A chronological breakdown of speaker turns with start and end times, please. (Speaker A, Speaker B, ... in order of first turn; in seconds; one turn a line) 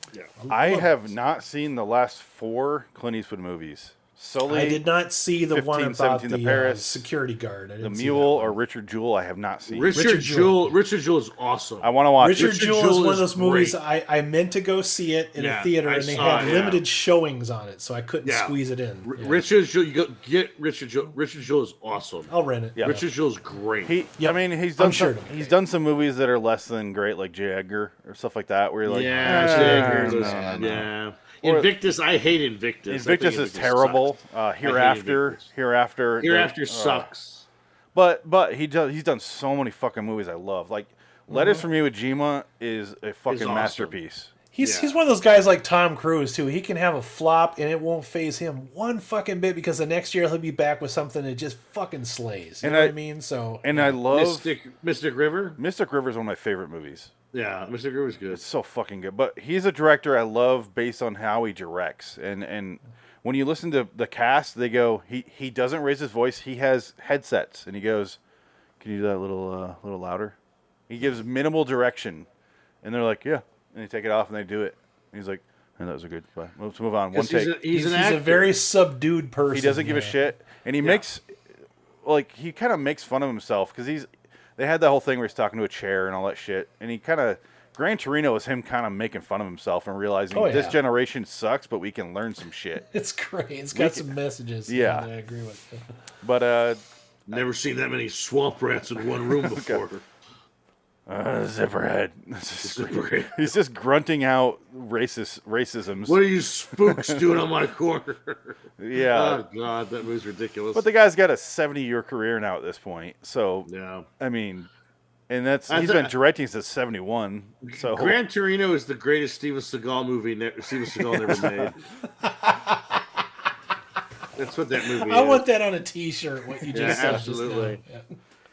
Speaker A: 0.4-1.1
Speaker B: 0.5-4.8
Speaker A: 4.4-8.6
Speaker B: 5.5-7.0
Speaker B: 7.8-9.9
Speaker C: 9.7-13.8
Speaker A: 9.9-10.7
Speaker B: 11.8-12.5
Speaker A: 12.2-19.4
Speaker C: 15.3-16.8
Speaker C: 18.2-22.3
Speaker A: 22.3-23.1
Speaker C: 22.8-23.9
Speaker B: 23.8-30.9
Speaker A: 24.2-25.6
Speaker C: 28.9-34.1
Speaker A: 29.2-30.9
Speaker B: 31.4-31.7
Speaker B: 32.9-37.1
Speaker C: 34.6-35.5
Speaker C: 36.2-37.5
Speaker B: 37.9-44.3
Speaker C: 41.3-41.6
Speaker C: 43.3-44.0
Speaker A: 44.5-54.0
Speaker C: 44.6-44.9
Speaker B: 52.6-52.9
Speaker B: 53.6-54.6
Speaker C: 54.1-55.6
Speaker B: 55.6-57.1
Speaker C: 57.3-58.4
Speaker B: 58.3-68.2
Speaker B: 68.8-70.3
Speaker B: 70.9-72.3
Speaker B: 72.8-77.5
Speaker C: 77.1-78.5
Speaker A: 77.7-80.2
Speaker B: 79.5-81.4
Speaker B: 82.0-92.8
Speaker A: 90.3-90.8
Speaker A: 92.9-95.9
Speaker B: 93.7-94.0
Speaker B: 94.7-95.1
Speaker B: 96.2-97.4
Speaker C: 97.3-100.0
Speaker B: 99.2-99.8
Speaker B: 101.1-106.2
Speaker C: 102.6-103.5
Speaker C: 106.0-110.8
Speaker B: 106.8-107.4
Speaker B: 108.8-109.4
Speaker B: 110.7-113.7
Speaker C: 113.7-114.1
Speaker B: 114.2-114.7
Speaker B: 115.3-118.2
Speaker C: 115.7-116.1
Speaker C: 117.6-121.8
Speaker B: 121.3-121.7
Speaker A: 122.1-123.0
Speaker C: 124.3-125.4
Speaker A: 124.8-128.0
Speaker C: 126.7-127.8